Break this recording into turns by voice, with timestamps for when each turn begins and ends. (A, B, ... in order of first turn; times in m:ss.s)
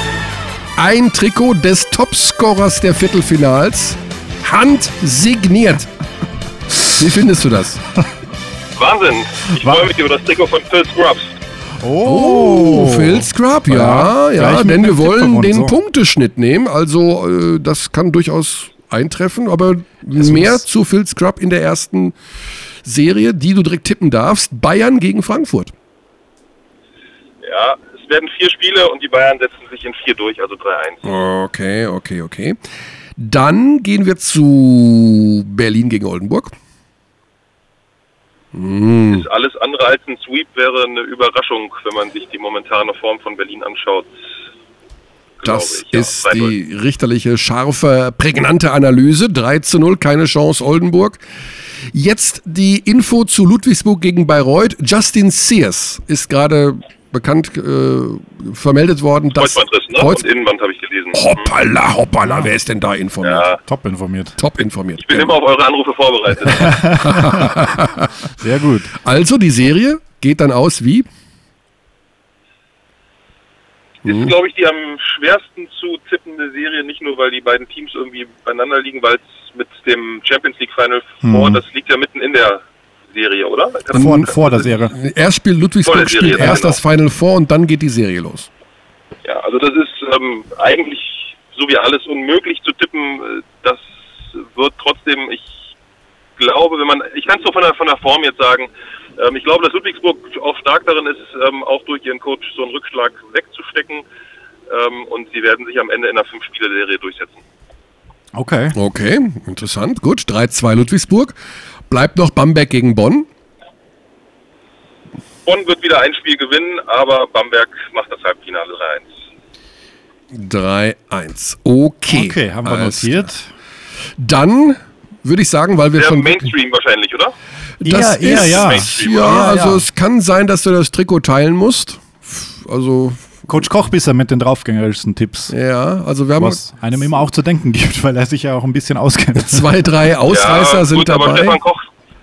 0:00.8-0:05.9 A
0:06.8-0:07.8 A
0:08.8-0:11.4 B
0:09.6-0:09.9 C
0:11.8-0:15.8 C
0:12.0-0:22.2 A
0:20.2-0:20.6 C
0:22.8-0:25.7 A
0:27.4-0:31.0 B
0:31.0-0:32.6 A
0:33.2-0:36.5 A
0:38.5-0:39.3 A
0:39.1-0:44.1 B
0:45.4-0:46.6 B
0:45.4-0:51.2 A
0:51.9-1:00.2 A
0:59.4-1:01.5 B
1:01.1-1:03.5 A
1:02.2-1:02.5 C
1:03.2-1:03.6 B
1:03.6-1:04.4 C
1:04.4-1:05.4 A
1:05.0-1:06.7 B
1:06.4-1:08.1 A
1:06.5-1:07.7 C
1:08.4-1:09.0 C
1:08.9-1:11.1 A
1:14.0-1:24.6 B
1:14.0-1:14.3 A
1:21.2-1:21.6 C
1:23.9-1:24.9 C
1:23.9-1:28.5 A
1:25.8-1:26.8 B
1:29.2-1:35.7 B
1:36.4-1:44.0 B
1:44.7-1:47.4 B
1:48.3-1:48.8 C
1:48.7-1:51.4 A
1:51.9-1:53.3 A
1:55.4-1:59.1 B
2:00.3-2:03.3 A
2:02.1-2:03.5 C
2:04.2-2:06.5 A
2:06.0-2:07.3 B
2:07.8-2:13.4 A
2:07.8-2:09.9 C
2:08.3-2:09.5 B
2:13.5-2:15.6 C
2:15.5-2:17.0 A
2:16.4-2:19.7 C
2:19.4-2:21.6 A
2:20.3-2:21.9 B